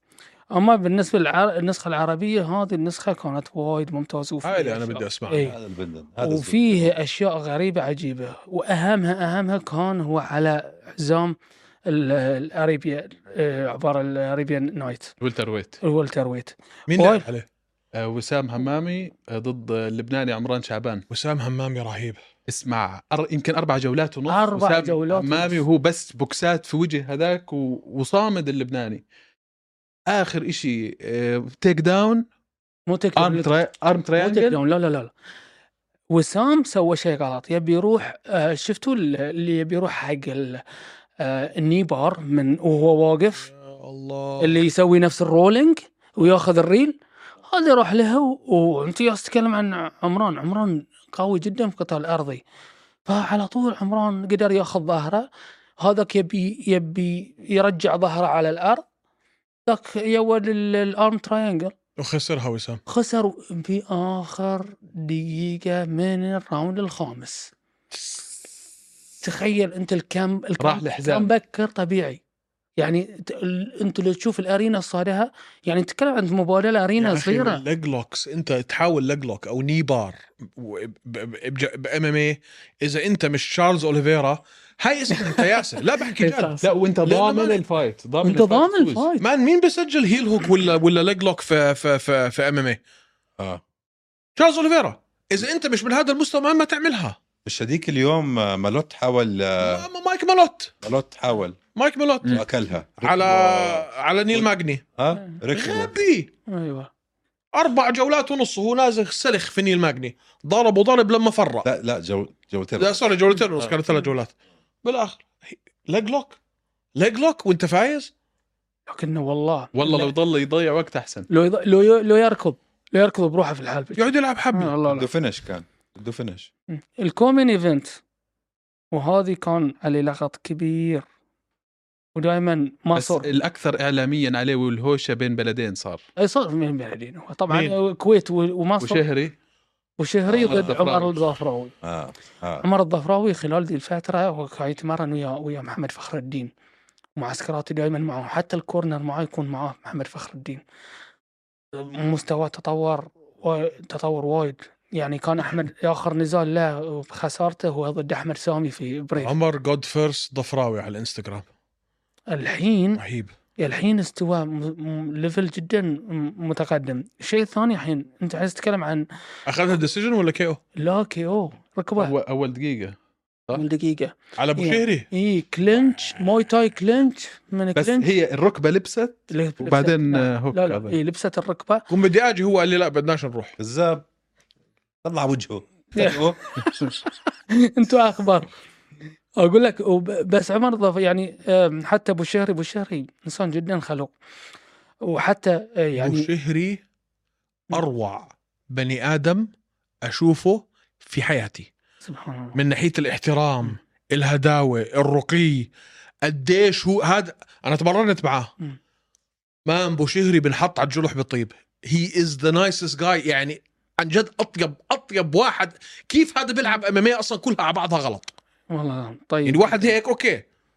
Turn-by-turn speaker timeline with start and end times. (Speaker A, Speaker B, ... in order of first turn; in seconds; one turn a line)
Speaker A: 0.5-5.6
Speaker B: 4.4-5.5
Speaker C: 5.3-6.9
Speaker A: 6.2-15.2
Speaker D: 15.2-15.8
Speaker A: 15.8-17.3
Speaker B: 16.9-17.4
Speaker D: 18.0-21.1
Speaker B: 21.1-22.2
Speaker D: 22.5-29.0
Speaker A: 24.3-25.6
Speaker D: 30.1-32.2
Speaker A: 32.9-33.5
Speaker D: 33.2-34.6
Speaker A: 34.2-35.1
Speaker A: 36.1-40.6
Speaker A: 41.2-43.5
Speaker B: 43.5-44.6
Speaker A: 44.4-47.0
Speaker A: 47.5-52.4
Speaker A: 53.1-55.3
Speaker A: 55.8-58.8
Speaker A: 59.7-61.7
Speaker B: 62.0-62.8
Speaker A: 62.9-67.5
Speaker A: 69.2-72.2
Speaker D: 70.6-71.3
Speaker A: 72.8-77.6
Speaker B: 77.0-87.6
Speaker A: 86.2-86.6
Speaker D: 86.6-89.1
Speaker A: 88.2-89.3
Speaker B: 89.2-92.8
Speaker B: 94.4-97.2
Speaker C: 97.5-99.9
Speaker B: 99.6-100.7
Speaker C: 100.8-101.6
Speaker B: 101.8-102.4
Speaker C: 102.3-105.9
Speaker B: 103.0-104.8
Speaker B: 105.5-106.3
Speaker A: 106.5-106.9
Speaker B: 107.5-111.7
Speaker C: 111.6-113.0
Speaker B: 112.8-114.3
Speaker B: 114.8-116.4
Speaker B: 117.0-118.1
Speaker A: 118.9-120.1
Speaker D: 119.8-121.3
Speaker A: 121.3-125.1
Speaker B: 124.0-124.8
Speaker C: 124.9-126.5
Speaker A: 126.7-128.0
Speaker A: 128.9-131.1
Speaker A: 132.2-133.3
Speaker D: 132.9-136.0
Speaker A: 136.2-139.1
Speaker B: 137.5-137.8
Speaker D: 138.8-139.3
Speaker A: 140.0-141.8
Speaker D: 140.3-141.2
Speaker C: 140.4-140.7
Speaker C: 141.8-142.7
Speaker A: 142.6-146.5
Speaker A: 147.2-150.6
Speaker A: 151.7-159.3
Speaker B: 159.2-161.4
Speaker A: 162.3-163.0
Speaker B: 163.0-163.3
Speaker A: 163.6-169.1
Speaker B: 169.5-170.6
Speaker A: 170.8-172.2
Speaker D: 172.0-173.0
Speaker A: 173.5-178.1
Speaker B: 174.4-175.1
Speaker D: 177.8-181.0
Speaker A: 179.3-181.9
Speaker B: 181.9-183.6
Speaker C: 183.6-184.1
Speaker C: 185.0-186.4
Speaker A: 186.0-188.5
Speaker A: 189.4-194.1
Speaker A: 195.1-196.3
Speaker B: 196.0-196.8
Speaker B: 197.7-199.5
Speaker B: 200.1-201.7
Speaker A: 202.0-202.6
Speaker B: 202.6-205.7
Speaker B: 206.2-208.5
Speaker B: 209.7-218.3
Speaker A: 218.7-219.9
Speaker B: 219.5-220.4